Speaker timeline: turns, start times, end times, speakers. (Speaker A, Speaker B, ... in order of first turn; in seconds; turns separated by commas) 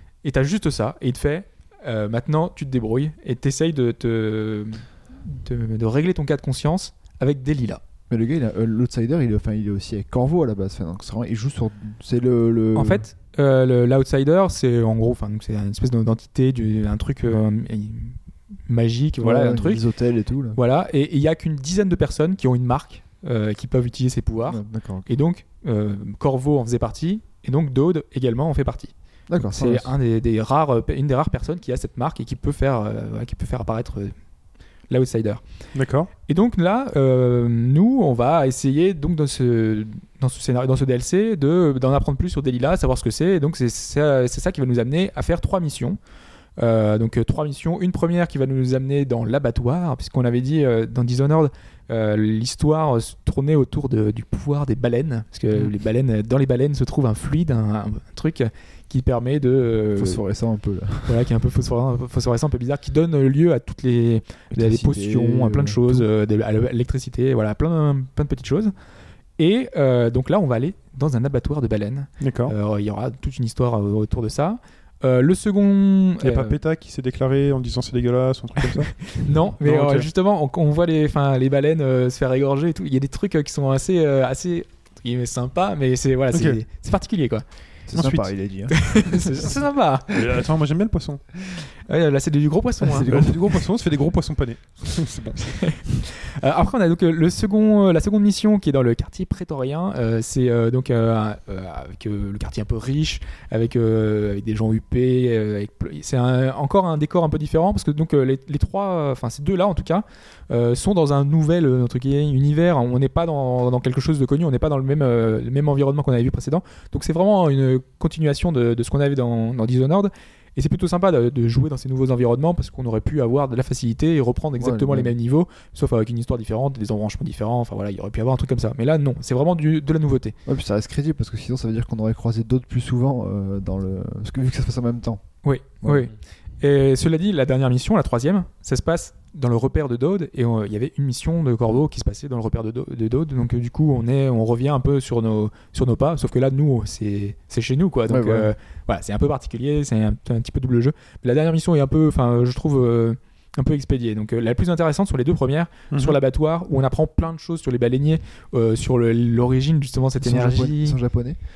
Speaker A: 0.2-7.8, Speaker B: 8.1-13.1, Speaker A: 12.8-18.2, Speaker A: 18.7-19.8, Speaker B: 19.2-20.6, Speaker A: 20.6-34.1, Speaker B: 24.4-25.1, Speaker B: 29.3-29.9, Speaker A: 34.9-35.4, Speaker C: 35.7-36.1, Speaker A: 36.3-46.0, Speaker A: 46.6-60.2, Speaker B: 60.0-61.2, Speaker A: 61.1-68.7, Speaker B: 64.5-66.1, Speaker A: 69.4-76.6, Speaker C: 72.2-72.5, Speaker C: 76.2-80.1, Speaker A: 79.1-87.4, Speaker C: 86.3-86.6, Speaker B: 87.9-89.5, Speaker C: 87.9-88.3, Speaker A: 88.7-90.2, Speaker C: 90.1-91.2, Speaker A: 91.9-93.1, Speaker B: 92.8-93.6, Speaker C: 93.1-95.7, Speaker A: 95.6-130.4, Speaker B: 124.6-125.1, Speaker B: 130.5-135.2, Speaker A: 135.4-161.0, Speaker B: 135.8-136.1, Speaker B: 148.1-148.5, Speaker C: 155.9-156.2, Speaker B: 160.2-161.4